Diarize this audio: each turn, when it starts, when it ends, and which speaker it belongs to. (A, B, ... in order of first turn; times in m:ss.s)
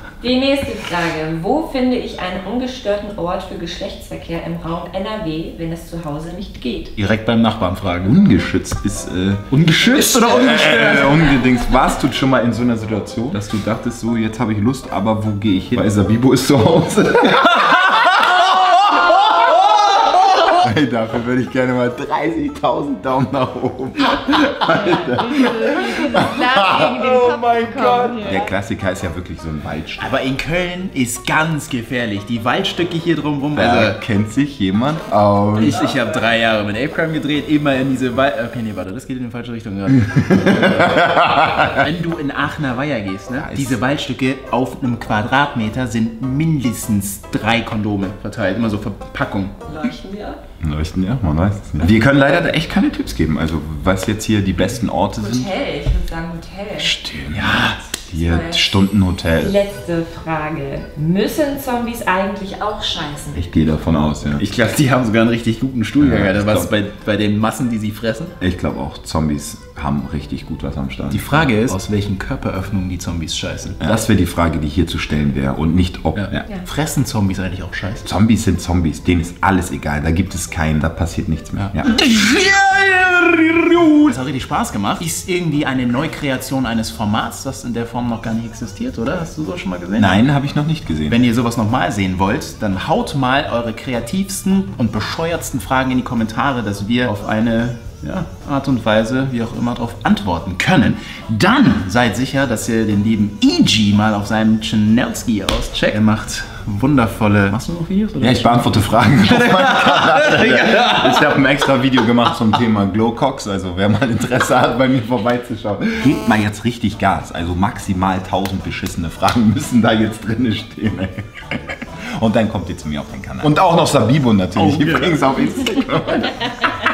0:00.2-0:06.9 A
0:07.0-0:08.2 B
0:08.0-0:18.2 C
0:09.5-0:11.4 B
0:17.6-0:20.5 B
0:20.5-0:26.9 C
0:24.6-0:28.5 A
0:26.7-0:28.3 B
0:28.2-0:30.1 C
0:30.0-0:34.0 B
0:33.5-0:35.8 C
0:35.5-0:49.6 B
0:40.4-0:41.8 C
0:43.4-0:43.8 C
0:49.7-0:50.4 A
0:50.6-0:55.5 C
0:55.2-0:57.0 A
0:56.8-0:59.6 C
0:57.2-0:57.8 B
0:58.1-1:03.4 A
1:03.3-1:04.4 C
1:04.3-1:08.4 B
1:06.0-1:06.7 C
1:08.4-1:11.5 C
1:11.1-1:13.8 B
1:13.8-1:16.5 C
1:16.2-1:18.1 B
1:18.0-1:21.9 C
1:21.6-1:30.2 B
1:30.0-1:31.2 C
1:31.1-1:48.7 B
1:48.2-2:06.5 C
1:49.5-1:51.1 B
2:04.6-2:05.4 B